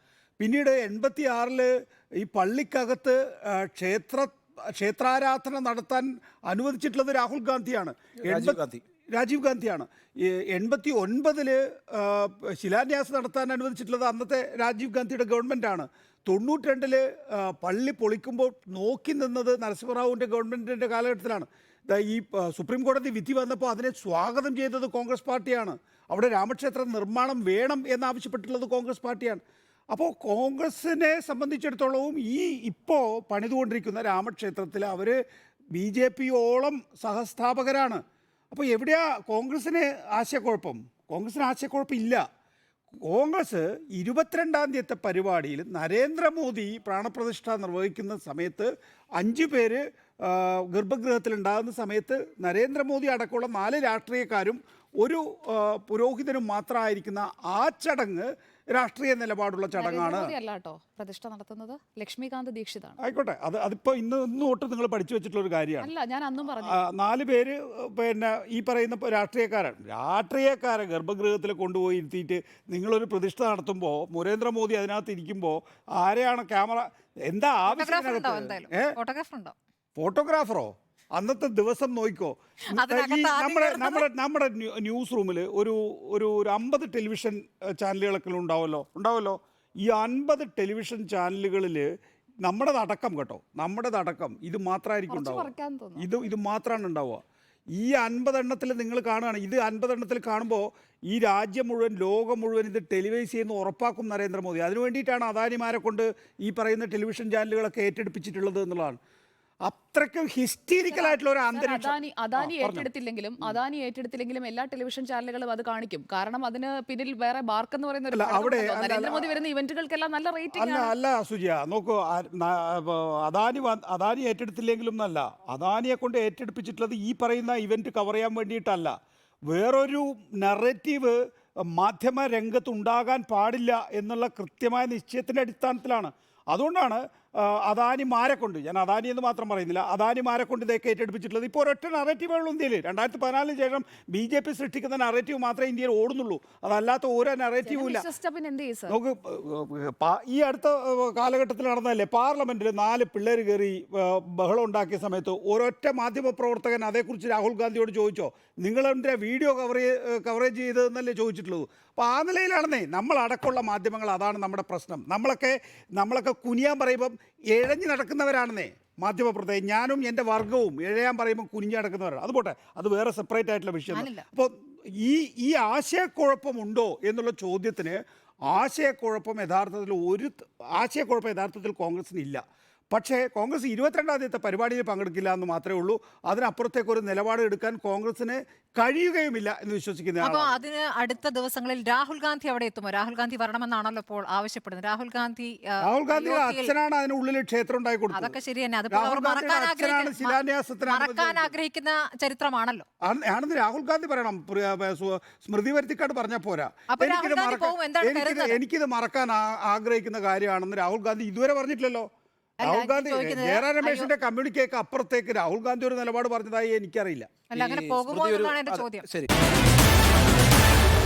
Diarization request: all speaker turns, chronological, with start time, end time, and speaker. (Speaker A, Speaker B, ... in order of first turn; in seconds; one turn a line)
Speaker A: 0.4-35.2
Speaker B: 8.2-8.8
Speaker A: 35.8-38.0
Speaker A: 38.5-42.2
Speaker A: 43.0-60.3
Speaker C: 59.8-63.0
Speaker A: 63.0-65.9
Speaker C: 65.8-66.8
Speaker A: 66.6-79.0
Speaker D: 77.7-79.5
Speaker A: 80.0-91.9
Speaker D: 82.7-84.1
Speaker A: 92.5-97.2
Speaker C: 95.1-96.1
Speaker A: 97.8-109.0
Speaker A: 109.7-112.9
Speaker C: 110.9-120.9
Speaker A: 118.1-119.3
Speaker A: 120.5-128.9
Speaker A: 129.5-131.2
Speaker A: 131.7-148.0
Speaker C: 147.7-149.0
Speaker A: 148.9-182.4
Speaker D: 173.9-174.3
Speaker A: 182.9-190.6
Speaker D: 190.2-196.7
Speaker A: 195.8-198.4
Speaker D: 198.1-202.9
Speaker A: 198.9-201.5
Speaker A: 203.0-212.1
Speaker D: 206.9-208.6
Speaker D: 212.6-214.1
Speaker A: 212.6-217.3
Speaker D: 217.5-219.1
Speaker B: 217.5-219.3